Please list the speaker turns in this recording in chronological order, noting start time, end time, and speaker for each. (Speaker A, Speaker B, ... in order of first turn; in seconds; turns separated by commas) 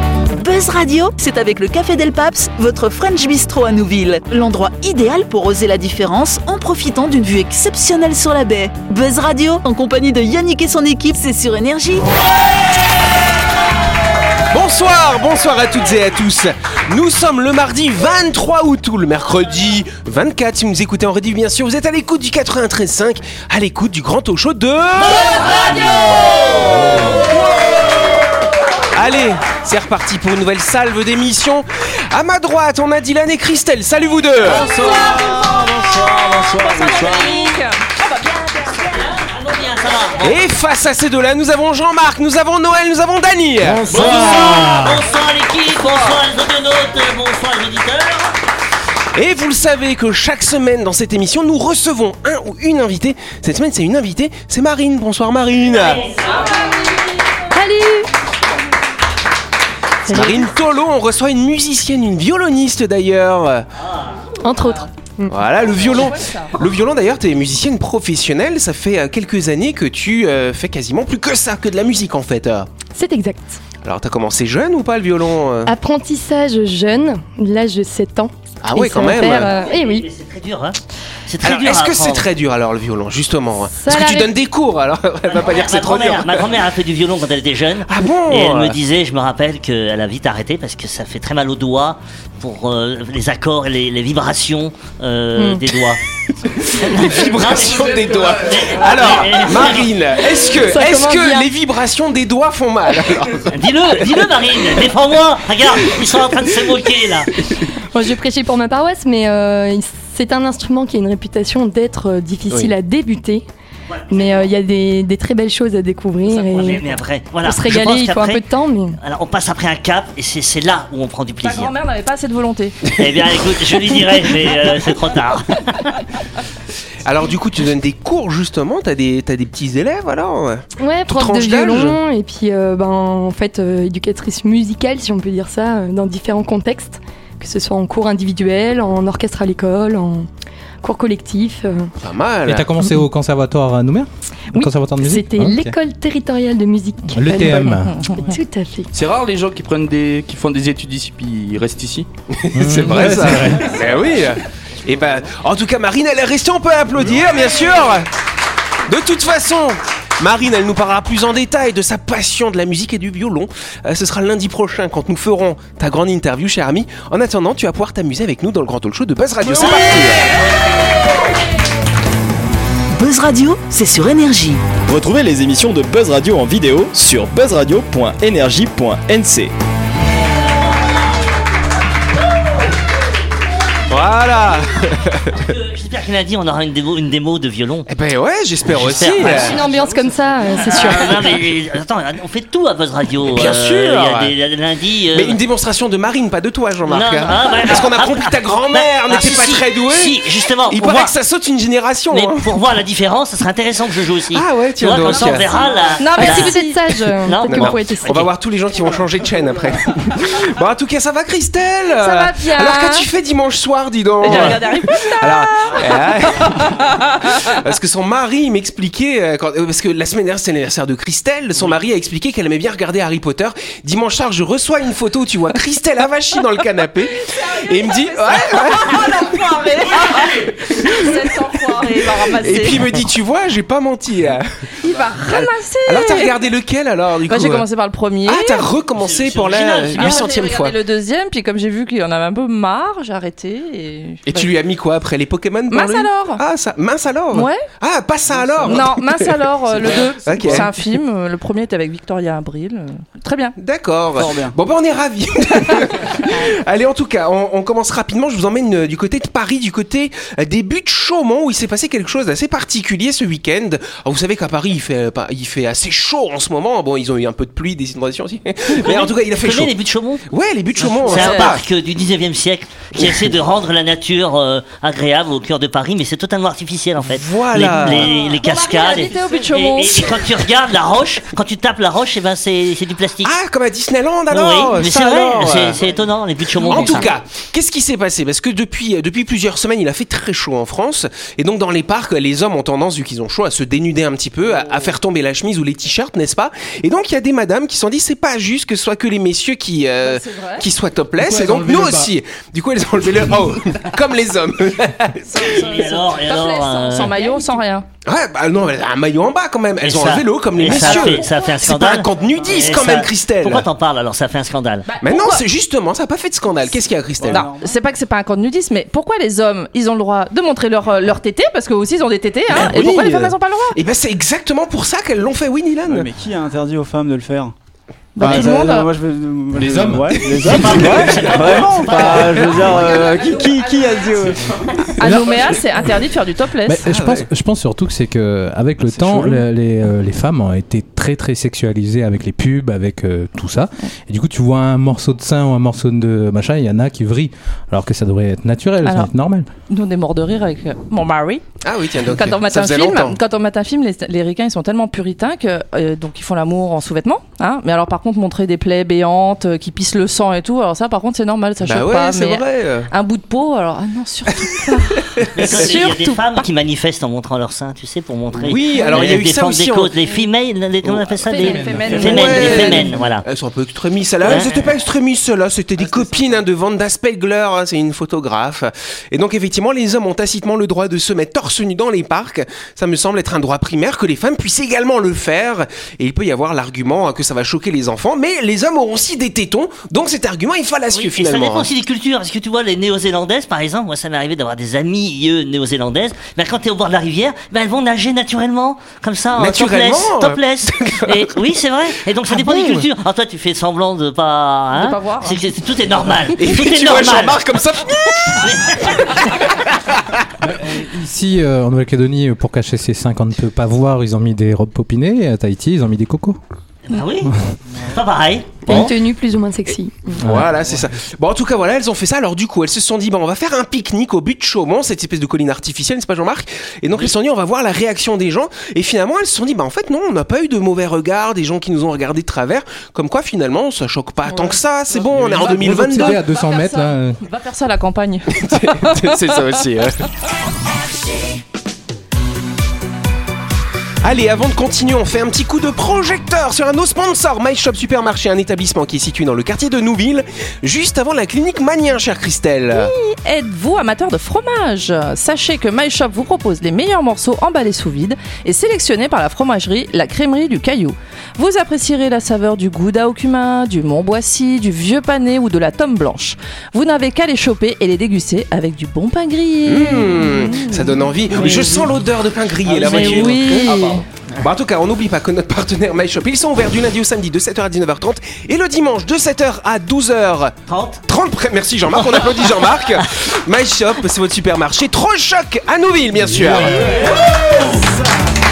Speaker A: 0.3-12.1, Speaker B: 14.5-25.7, Speaker C: 25.4-27.0, Speaker B: 28.9-34.7, Speaker D: 34.4-37.6, Speaker E: 34.5-39.1, Speaker C: 38.9-40.3, Speaker B: 40.2-43.8, Speaker D: 43.6-45.0, Speaker C: 43.9-48.3, Speaker B: 49.1-56.0, Speaker C: 55.7-56.4, Speaker E: 56.3-56.8, Speaker F: 57.5-58.1, Speaker F: 60.0-60.5, Speaker B: 60.1-63.7, Speaker C: 63.8-64.3, Speaker F: 64.4-65.4, Speaker B: 65.3-72.7, Speaker E: 65.6-66.6, Speaker F: 72.9-73.6, Speaker B: 73.8-75.7, Speaker F: 75.7-80.0, Speaker B: 78.6-79.5, Speaker C: 79.6-82.3, Speaker B: 81.4-86.5, Speaker F: 83.7-84.3, Speaker C: 85.3-96.0, Speaker B: 87.9-88.8, Speaker F: 95.3-95.6, Speaker B: 96.4-104.0, Speaker C: 96.8-99.9, Speaker F: 100.5-101.5, Speaker C: 103.5-107.3, Speaker F: 107.9-113.4, Speaker B: 112.5-112.7, Speaker C: 113.9-114.5, Speaker F: 114.1-116.9, Speaker C: 116.3-118.4, Speaker F: 117.4-119.0, Speaker C: 119.0-121.7, Speaker E: 121.4-122.8, Speaker B: 122.9-124.7, Speaker C: 122.9-126.0, Speaker B: 127.0-132.0, Speaker F: 130.8-140.3, Speaker F: 140.8-141.9, Speaker B: 142.0-142.7, Speaker G: 142.4-145.7, Speaker F: 144.5-148.9, Speaker G: 147.1-148.0, Speaker H: 148.9-152.1, Speaker B: 152.3-158.1, Speaker G: 152.5-153.8, Speaker D: 153.5-155.4, Speaker B: 158.8-170.3, Speaker C: 169.4-170.1, Speaker A: 172.9-174.6, Speaker I: 174.9-179.5, Speaker B: 183.9-185.5, Speaker C: 185.3-187.9, Speaker B: 187.9-189.6, Speaker C: 188.7-189.7, Speaker D: 188.9-190.2, Speaker F: 189.2-191.3, Speaker C: 190.6-195.4, Speaker B: 193.3-194.3, Speaker B: 195.1-202.5, Speaker C: 196.9-201.1, Speaker C: 202.1-206.5, Speaker B: 204.3-205.5, Speaker E: 205.1-206.8, Speaker F: 206.1-208.2, Speaker C: 207.2-208.3, Speaker B: 207.5-231.3, Speaker E: 212.0-213.1, Speaker E: 214.2-217.6, Speaker C: 214.3-214.6, Speaker E: 227.2-232.9, Speaker B: 231.8-234.5, Speaker E: 234.8-236.3, Speaker B: 235.2-237.7, Speaker E: 237.3-238.7, Speaker B: 238.2-240.8, Speaker C: 239.0-240.3, Speaker E: 239.9-244.5, Speaker B: 244.2-250.8, Speaker E: 245.7-246.4, Speaker E: 247.3-247.6, Speaker D: 248.3-248.8, Speaker E: 248.6-253.5, Speaker D: 249.7-250.6, Speaker B: 253.6-269.7, Speaker D: 254.2-254.6, Speaker C: 268.7-270.2, Speaker B: 270.3-271.6, Speaker C: 270.8-283.3, Speaker E: 271.0-271.5, Speaker B: 273.0-273.3, Speaker B: 277.0-278.2, Speaker E: 277.8-280.3, Speaker B: 283.2-285.8, Speaker C: 284.3-287.1, Speaker B: 286.6-305.8, Speaker E: 286.6-287.0, Speaker D: 294.5-294.9, Speaker E: 300.0-300.6, Speaker G: 301.2-302.1, Speaker E: 305.3-307.9, Speaker C: 305.4-307.1, Speaker B: 308.0-313.7, Speaker C: 309.8-314.9, Speaker E: 310.7-311.4, Speaker E: 314.9-315.4, Speaker B: 315.0-317.5, Speaker D: 317.2-317.8, Speaker E: 317.3-323.8, Speaker B: 322.5-326.1, Speaker D: 325.9-327.5, Speaker E: 328.1-328.9, Speaker D: 328.2-334.7, Speaker G: 328.2-328.5, Speaker G: 329.5-331.1, Speaker B: 330.2-332.4, Speaker C: 330.4-332.9, Speaker E: 332.6-334.2, Speaker E: 335.0-336.9, Speaker G: 335.0-335.9, Speaker G: 336.6-349.5, Speaker B: 336.8-337.3, Speaker D: 338.9-339.4, Speaker E: 348.8-349.1, Speaker E: 349.7-351.4, Speaker B: 351.6-353.2, Speaker E: 352.1-366.4, Speaker B: 361.6-362.9, Speaker B: 364.4-365.8, Speaker C: 365.3-373.2, Speaker B: 368.4-369.9, Speaker E: 371.3-372.9, Speaker G: 371.3-373.0, Speaker B: 371.9-391.7, Speaker D: 375.9-376.2, Speaker C: 390.9-407.4, Speaker B: 399.4-401.4, Speaker B: 402.2-402.9, Speaker E: 404.7-405.4, Speaker B: 406.3-410.2, Speaker C: 408.3-409.3, Speaker G: 410.4-416.4, Speaker C: 416.9-418.9, Speaker F: 418.6-420.2, Speaker B: 420.1-436.2, Speaker G: 420.2-420.5, Speaker E: 435.1-439.6, Speaker G: 435.2-437.2, Speaker B: 438.3-440.0, Speaker B: 444.0-452.9, Speaker E: 452.7-471.7, Speaker B: 469.6-487.2, Speaker C: 472.7-473.5, Speaker E: 472.8-474.0, Speaker C: 480.7-481.0, Speaker C: 481.9-482.6, Speaker E: 487.0-487.7